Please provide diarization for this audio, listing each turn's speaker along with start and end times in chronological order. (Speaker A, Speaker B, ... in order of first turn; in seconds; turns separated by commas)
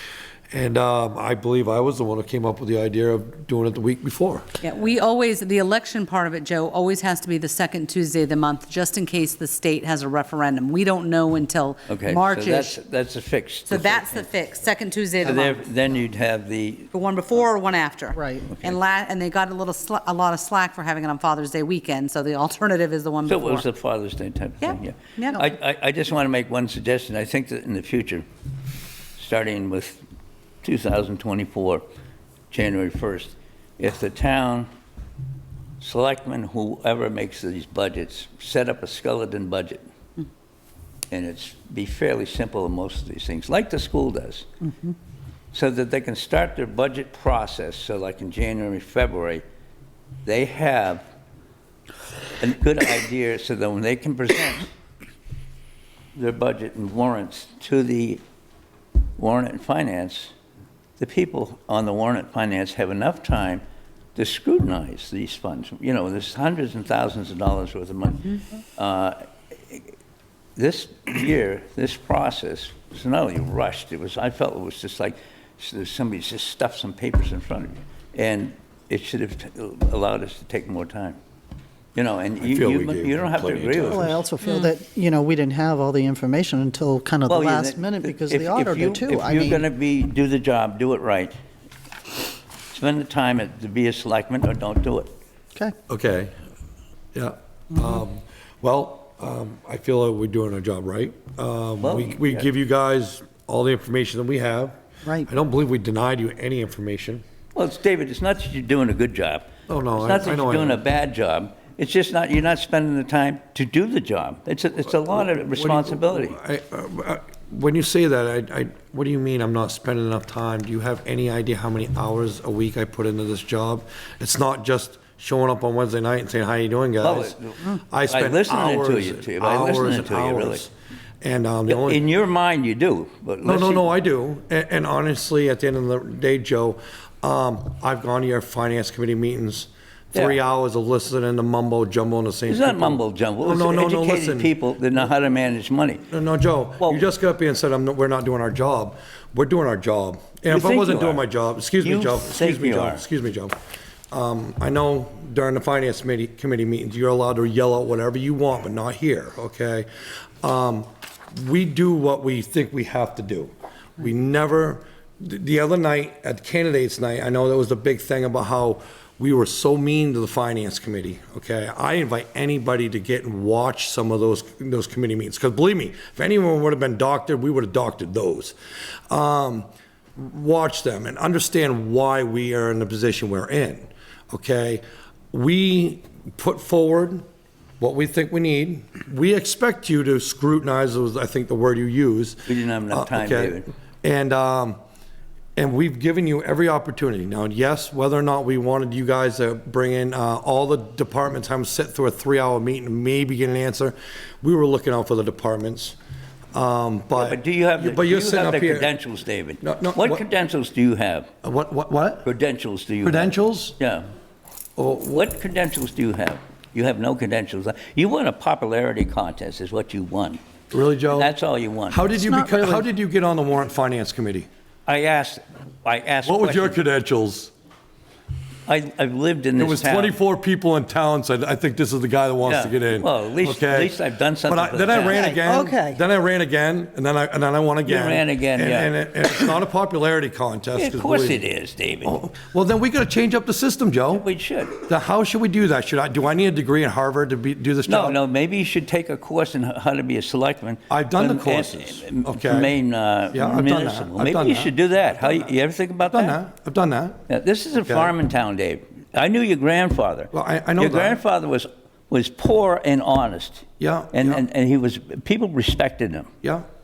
Speaker A: 0.5-4.5, Speaker B: 4.6-12.8, Speaker C: 11.9-14.3, Speaker B: 13.7-15.6, Speaker C: 15.2-16.9, Speaker B: 16.9-23.7, Speaker D: 18.1-18.5, Speaker C: 18.5-18.8, Speaker C: 23.2-28.2, Speaker B: 24.6-25.4, Speaker C: 29.2-30.0, Speaker C: 30.6-31.9, Speaker C: 32.5-34.7, Speaker C: 35.8-39.9, Speaker C: 41.1-44.5, Speaker C: 45.5-49.4, Speaker C: 50.2-51.1, Speaker C: 52.4-54.7, Speaker C: 56.1-58.2, Speaker C: 59.2-60.3, Speaker C: 61.0-63.6, Speaker C: 64.2-69.9, Speaker C: 70.6-81.2, Speaker C: 82.0-84.2, Speaker A: 82.4-84.2, Speaker D: 83.9-89.6, Speaker B: 84.4-84.7, Speaker C: 87.3-91.3, Speaker C: 92.7-95.1, Speaker A: 95.9-96.3, Speaker A: 97.2-107.2, Speaker C: 101.8-102.5, Speaker C: 107.5-116.4, Speaker A: 109.7-110.8, Speaker A: 115.1-130.7, Speaker C: 127.0-130.7, Speaker A: 131.2-132.0, Speaker C: 131.7-133.9, Speaker A: 133.4-144.5, Speaker C: 142.5-146.1, Speaker A: 146.1-153.5, Speaker C: 150.5-151.2, Speaker C: 151.8-153.0, Speaker A: 154.1-159.9, Speaker A: 160.4-178.6, Speaker A: 179.1-187.2, Speaker A: 187.8-194.8, Speaker C: 192.5-193.7, Speaker A: 195.6-206.0, Speaker A: 206.5-208.9, Speaker C: 207.1-211.3, Speaker A: 209.6-210.3, Speaker A: 211.4-212.3, Speaker C: 212.2-214.1, Speaker A: 213.0-213.8, Speaker A: 214.8-215.3, Speaker C: 215.1-220.4, Speaker A: 220.7-221.3, Speaker C: 221.1-222.0, Speaker A: 221.9-224.5, Speaker D: 222.1-222.8, Speaker C: 224.9-226.8, Speaker A: 226.2-227.5, Speaker C: 228.7-230.2, Speaker A: 229.6-241.4, Speaker C: 232.4-235.3, Speaker D: 234.9-236.0, Speaker C: 237.8-239.5, Speaker C: 240.8-242.2, Speaker A: 242.0-244.3, Speaker C: 244.2-244.8, Speaker A: 244.8-248.2, Speaker C: 247.9-256.4, Speaker A: 250.9-252.7, Speaker A: 253.3-255.5, Speaker A: 256.0-257.2, Speaker C: 257.3-266.3, Speaker A: 257.9-258.1, Speaker A: 260.3-261.2, Speaker A: 263.8-264.4